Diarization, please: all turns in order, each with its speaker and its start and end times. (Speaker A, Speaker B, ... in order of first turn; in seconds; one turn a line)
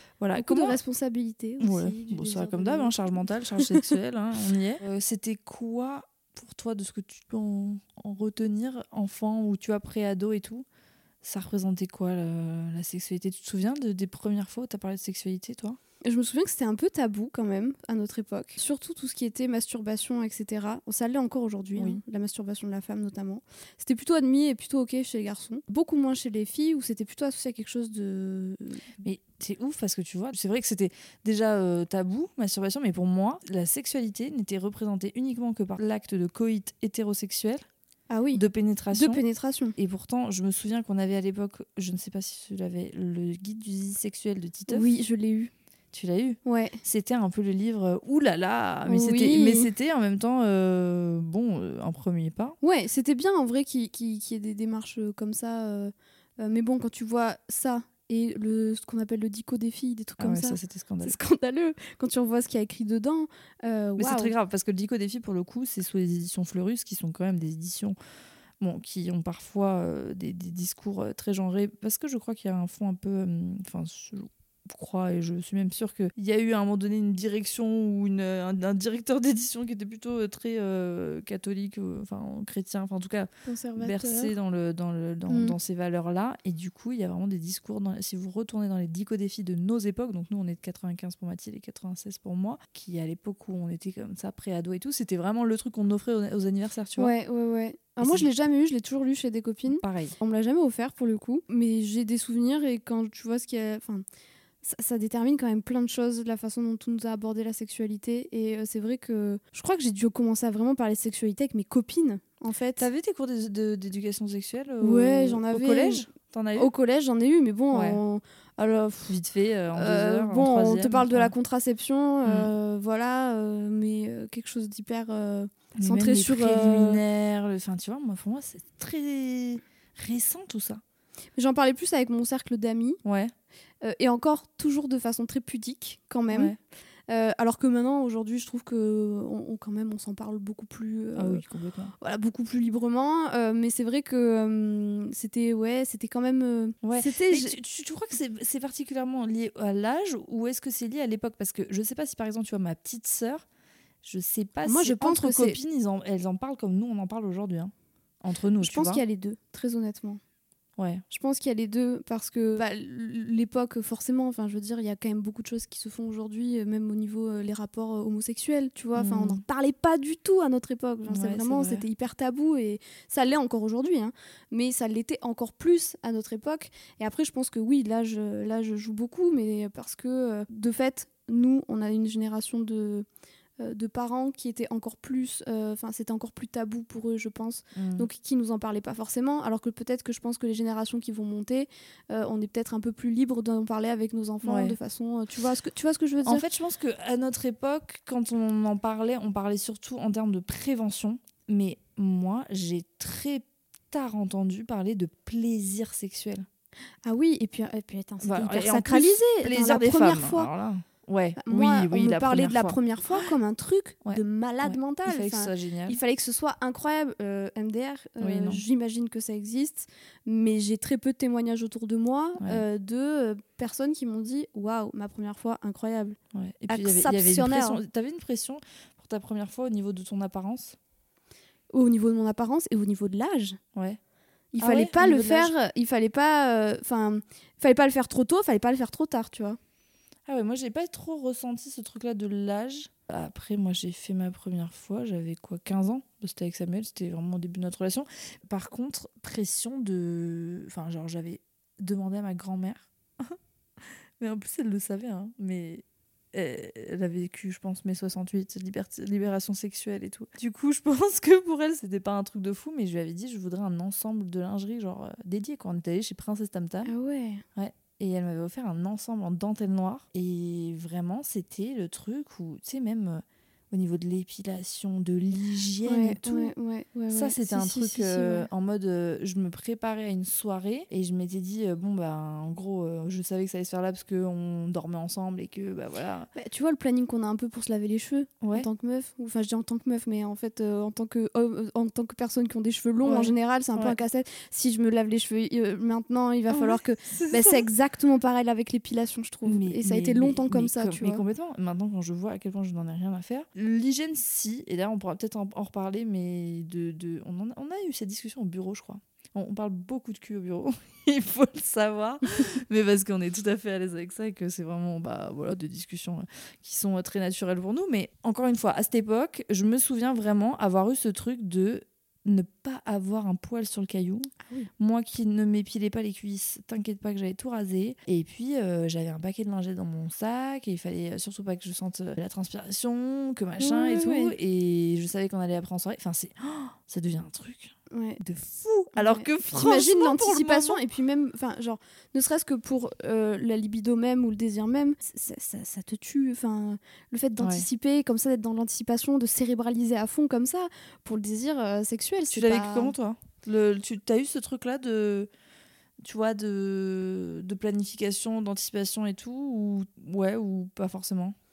Speaker A: 0.2-0.8
Speaker B: 0.3-3.9
Speaker A: 1.6-10.7
Speaker A: 11.2-15.8
Speaker B: 16.0-28.9
Speaker A: 21.8-22.0
Speaker A: 29.0-37.7
Speaker B: 38.1-39.8
Speaker A: 38.3-39.2
Speaker A: 39.8-44.9
Speaker B: 44.7-45.5
Speaker A: 45.9-52.6
Speaker B: 46.5-46.8
Speaker B: 48.9-49.7
Speaker B: 52.6-64.3
Speaker A: 60.2-61.2
Speaker A: 64.0-68.0
Speaker A: 68.6-97.1
Speaker B: 83.5-84.3
Speaker B: 85.3-85.6
Speaker B: 97.0-104.0
Speaker A: 98.0-98.3
Speaker A: 99.7-100.2
Speaker B: 104.6-112.9
Speaker A: 112.8-116.7
Speaker B: 114.8-119.1
Speaker A: 117.7-118.0
Speaker A: 119.1-121.3
Speaker B: 119.7-127.0
Speaker A: 122.2-122.5
Speaker A: 125.8-130.8
Speaker B: 131.4-133.0
Speaker A: 133.1-133.3
Speaker B: 133.8-136.6
Speaker A: 136.3-136.6
Speaker B: 137.1-141.4
Speaker A: 141.2-141.9
Speaker B: 142.0-147.5
Speaker A: 146.8-153.4
Speaker A: 154.0-159.0
Speaker B: 154.7-155.6
Speaker B: 158.6-160.2
Speaker A: 160.8-161.0
Speaker B: 161.1-183.1
Speaker A: 168.9-169.4
Speaker A: 171.1-171.8
Speaker B: 183.6-196.4
Speaker A: 187.7-188.1
Speaker A: 194.4-194.8
Speaker A: 196.2-206.5
Speaker B: 207.0-210.5
Speaker A: 208.2-213.3
Speaker B: 211.4-227.8
Speaker A: 214.0-216.0
Speaker A: 218.2-218.6
Speaker A: 222.4-222.6
Speaker A: 226.3-230.8
Speaker B: 231.7-233.6
Speaker A: 233.7-234.0
Speaker B: 234.5-239.6
Speaker A: 234.6-235.5
Speaker A: 240.3-253.4
Speaker A: 254.2-266.9
Speaker B: 266.8-267.4
Speaker A: 267.6-276.5
Speaker B: 275.9-278.5
Speaker A: 277.1-286.3
Speaker B: 286.3-301.2
Speaker A: 288.4-288.7
Speaker A: 293.0-294.0
Speaker A: 296.5-297.6
Speaker A: 299.4-340.8
Speaker B: 324.4-324.7
Speaker B: 333.6-334.3
Speaker B: 337.9-338.2
Speaker B: 338.9-352.9
Speaker A: 347.4-347.7
Speaker A: 352.3-355.3
Speaker A: 356.0-361.4